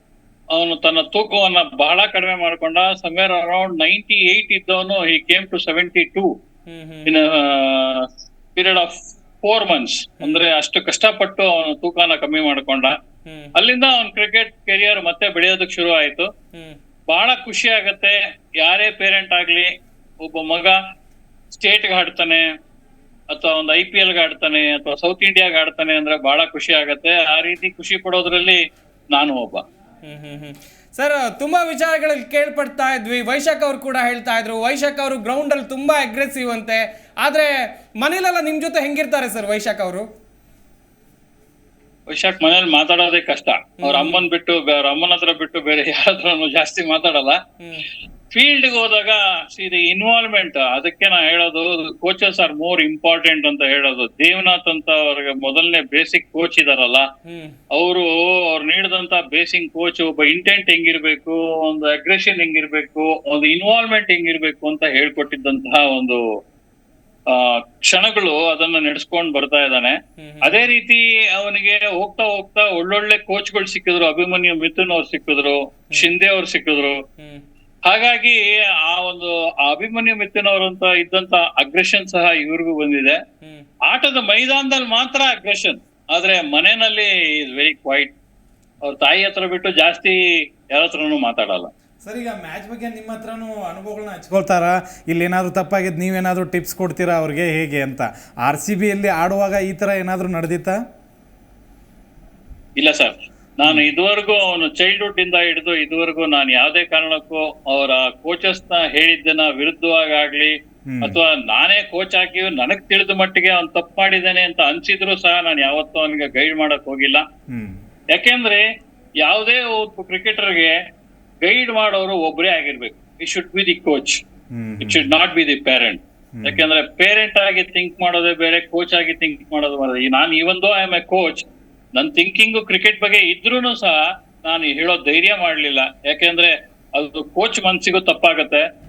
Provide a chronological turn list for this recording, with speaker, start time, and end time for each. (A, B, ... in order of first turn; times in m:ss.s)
0:00.5-0:06.3 A
0:06.7-0:07.1 B
0:07.0-0:12.9 A
0:10.2-0:10.4 B
0:13.2-0:13.5 B
0:13.5-0:16.3 A
0:17.1-0:20.8 A
0:21.5-0:22.4 A
0:23.3-0:28.6 A
0:29.1-0:29.6 A
0:30.0-0:40.0 B
0:42.1-0:47.4 A
0:43.8-0:44.2 B
0:48.3-0:57.1 A
0:57.2-0:57.6 B
0:57.7-1:06.2 A
1:07.3-1:17.0 A
1:10.2-1:10.7 B
1:17.8-1:23.2 A
1:23.9-1:28.1 A
1:28.8-1:31.7 A
1:32.0-1:40.8 C
1:42.8-1:57.2 A
1:50.9-1:51.2 C
1:57.5-1:57.8 C
1:58.1-1:58.6 A
1:59.2-2:00.8 A
2:01.4-2:04.2 A
2:04.5-2:05.1 C
2:04.8-2:18.6 A
2:06.4-2:06.7 C